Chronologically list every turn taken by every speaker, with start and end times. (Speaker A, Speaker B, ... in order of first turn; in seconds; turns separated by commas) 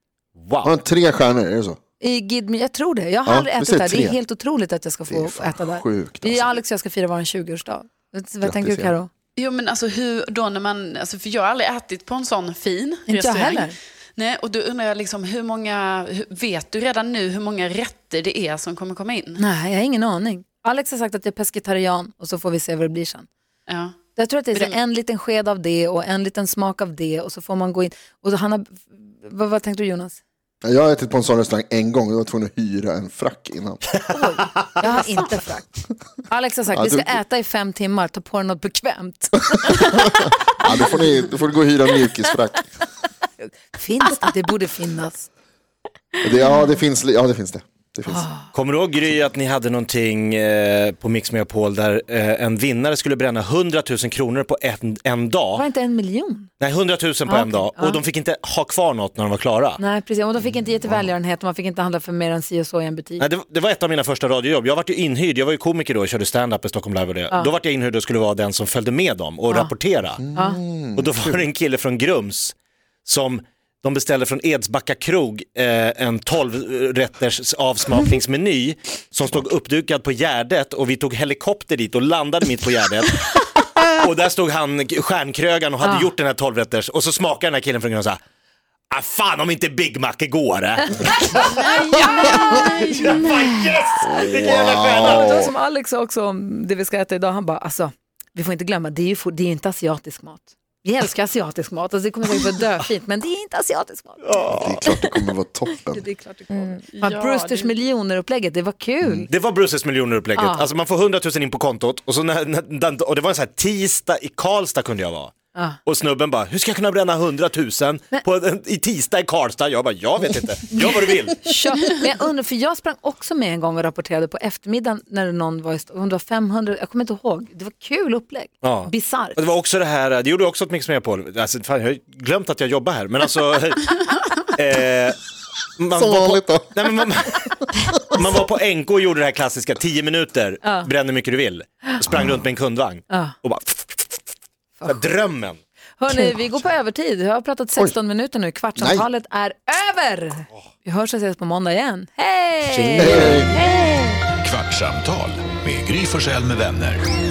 Speaker A: 0.3-0.8, Speaker B: 0.6-1.8, Speaker C: 2.0-9.1, Speaker B: 3.2-4.2, Speaker B: 5.1-6.6, Speaker B: 8.4-8.9, Speaker D: 9.3-19.4, Speaker C: 13.1-13.8, Speaker C: 19.4-23.3, Speaker D: 23.7-24.0, Speaker C: 24.1-30.2, Speaker B: 30.6-34.0, Speaker C: 34.1-41.0, Speaker B: 36.7-37.2, Speaker B: 39.7-42.6, Speaker C: 43.7-45.3, Speaker B: 46.2-48.3, Speaker C: 48.1-48.5, Speaker A: 48.5-55.6, Speaker C: 55.5-56.5, Speaker A: 56.6-59.8, Speaker C: 57.2-58.0, Speaker C: 59.8-63.2, Speaker B: 60.8-61.1, Speaker A: 63.2-70.2, Speaker B: 70.2-71.4, Speaker C: 70.3-70.6, Speaker A: 70.9-72.5, Speaker A: 73.0-88.2, Speaker C: 85.8-86.1, Speaker A: 88.9-95.5, Speaker C: 91.0-94.3, Speaker D: 91.5-93.1, Speaker B: 94.0-95.5, Speaker C: 94.8-105.0, Speaker A: 104.2-105.0, Speaker B: 104.4-106.0, Speaker C: 105.9-109.3, Speaker D: 106.9-107.7, Speaker A: 109.3-115.3, Speaker C: 110.3-110.7, Speaker C: 115.5-115.8, Speaker A: 115.8-121.5, Speaker C: 121.4-129.4, Speaker A: 128.6-135.2, Speaker A: 135.8-144.1, Speaker B: 135.9-136.9, Speaker C: 140.6-140.9, Speaker B: 142.1-142.4, Speaker C: 143.1-143.3, Speaker A: 144.8-145.6, Speaker C: 146.0-154.2, Speaker B: 148.8-149.1, Speaker A: 152.7-153.5, Speaker B: 152.8-153.6, Speaker E: 154.4-157.0